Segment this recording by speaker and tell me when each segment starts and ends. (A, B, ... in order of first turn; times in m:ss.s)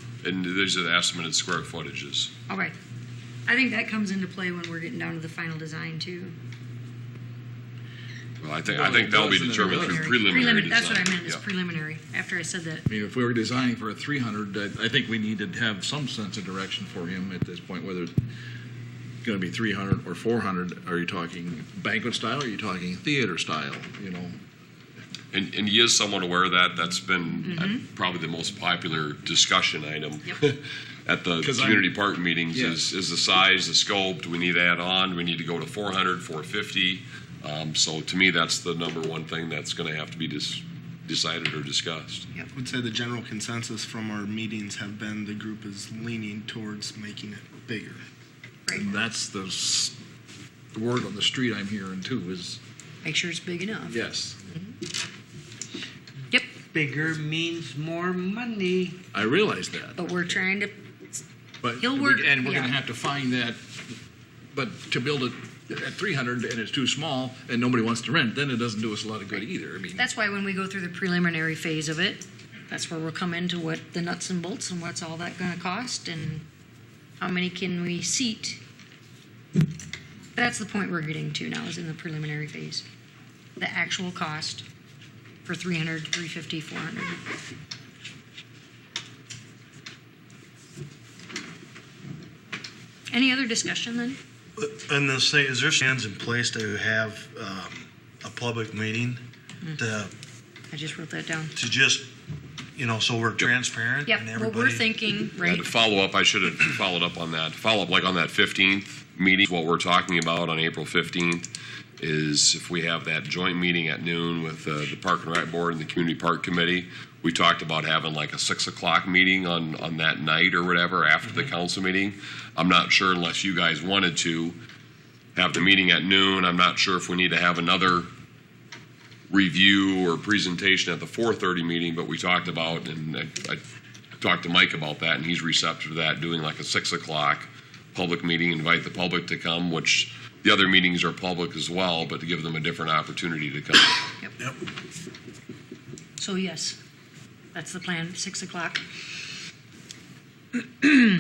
0:00.2-0:02.3 A
0:02.5-0:02.8 B
0:03.5-0:06.4 B
0:08.4-0:11.4 A
0:08.7-0:10.8 C
0:09.3-0:12.9 B
0:12.9-0:18.1 C
0:19.2-0:24.4 C
0:25.3-0:42.2 A
0:31.4-0:31.9 C
0:32.5-0:32.8 C
0:42.5-0:48.0 D
0:48.7-0:49.0 B
0:48.8-0:50.0 C
0:50.7-0:52.6 C
0:53.0-0:54.0 B
0:53.8-0:54.4 C
0:56.3-0:56.6 B
0:56.7-0:59.0 E
0:59.1-1:00.4 C
1:00.0-1:01.2 B
1:01.6-1:04.0 C
1:01.8-1:02.8 B
1:04.5-1:10.1 C
1:10.0-1:16.5 B
1:17.2-1:18.6 B
1:20.4-1:22.8 B
1:23.6-1:24.6 B
1:25.4-1:27.2 B
1:33.1-1:34.2 B
1:34.9-1:37.5 F
1:38.3-1:39.1 F
1:40.7-1:41.5 B
1:41.6-1:42.0 F
1:42.8-1:44.7 F
1:44.1-1:45.7 B
1:45.4-2:04.6 A
2:05.4-2:08.1 A
2:09.3-2:13.6 A
2:14.2-2:24.0 A
2:26.2-2:26.8 B
2:27.5-2:28.8 B